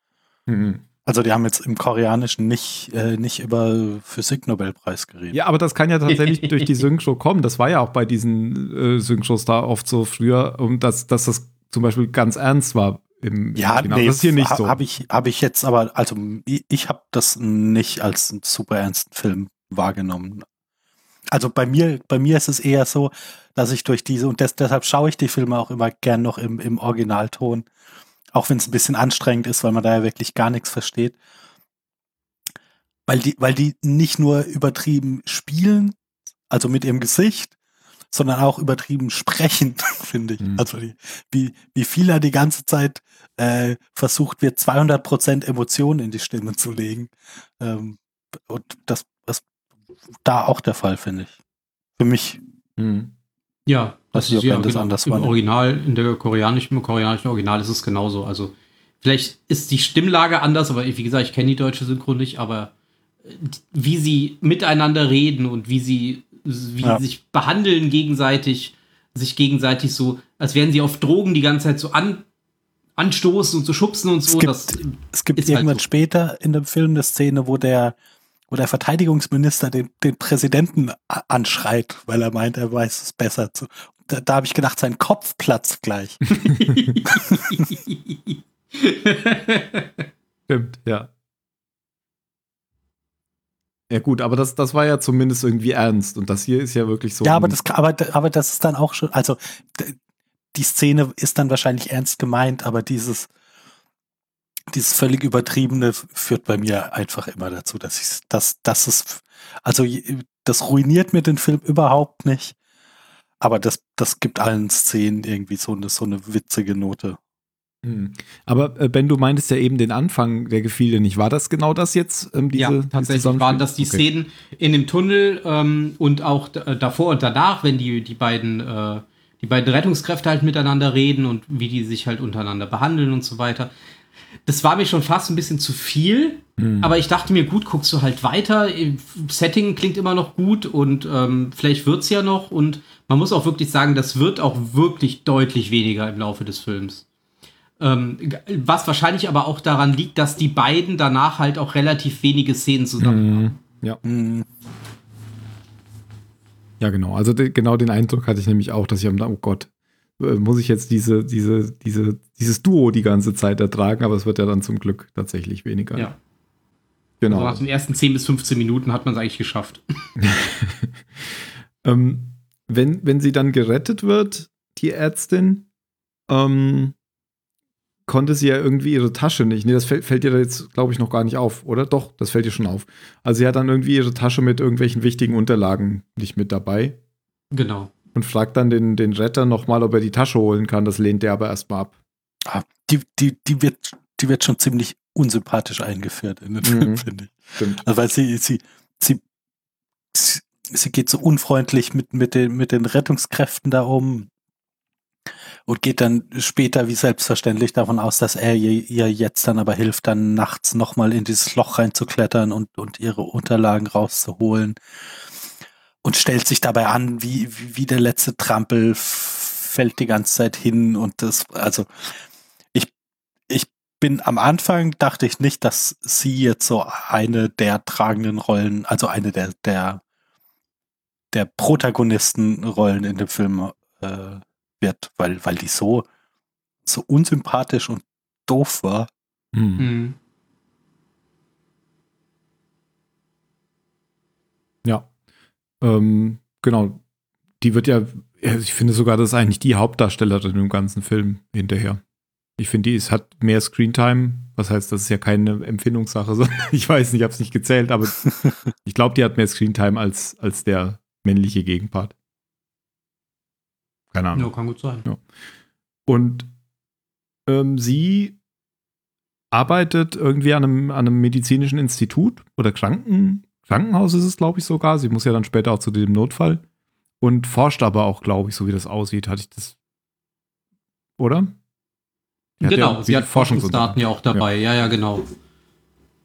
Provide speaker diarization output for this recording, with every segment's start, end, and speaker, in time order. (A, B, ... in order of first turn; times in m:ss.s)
0:00.5-0:00.8 A
0:01.0-0:05.4 B
0:05.3-0:14.8 A
0:06.1-0:06.8 C
0:13.6-0:20.4 B
0:21.3-0:27.6 B
0:28.3-0:31.2 B
0:33.1-0:35.9 B
0:36.5-0:37.5 B
0:38.1-0:49.4 B
0:40.4-0:40.6 A
0:50.2-0:51.3 B
0:52.0-0:52.4 B
0:52.8-0:53.1 A
0:53.7-1:02.7 C
0:54.1-0:55.3 B
1:03.2-1:12.2 C
1:13.0-1:15.8 C
1:14.3-1:18.0 B
1:18.5-1:26.4 B
1:26.3-1:30.0 C
1:27.0-1:27.6 B
1:30.5-1:31.1 A
1:33.9-1:37.6 A
1:37.2-1:40.0 B
1:40.5-1:43.3 B
1:44.7-1:52.5 B
1:53.4-1:57.2 B
1:57.8-2:04.0 A
2:02.5-2:13.7 C
2:14.4-2:27.0 C
2:16.6-2:16.9 A
2:27.8-2:33.6 C
2:33.0-2:34.0 A
2:34.0-2:34.4 B
2:36.8-2:46.1 A
2:47.2-2:47.6 A
2:47.3-2:49.8 C
2:50.2-2:50.9 A
2:51.8-2:55.7 A
2:56.3-2:56.9 A
2:58.1-3:07.0 A
3:07.5-3:07.9 C
3:08.1-3:11.9 A
3:12.4-3:19.2 B
3:16.6-3:17.0 A
3:17.6-3:17.8 A
3:20.1-3:24.3 B
3:25.7-3:34.8 B
3:36.0-3:42.0 B
3:43.5-3:50.0 B
3:51.3-3:56.0 B
3:56.8-3:59.1 B
3:59.5-3:59.9 A
3:59.8-4:00.2 C
4:05.8-4:07.0 A
4:07.6-4:12.0 A
4:12.6-4:22.1 A
4:24.1-4:24.5 A
4:24.3-4:25.1 C
4:26.1-4:26.5 A
4:27.4-4:28.4 A
4:29.5-4:36.6 A
4:37.2-4:39.8 A
4:41.2-4:41.5 A
4:42.6-4:45.2 C
4:42.6-4:44.4 A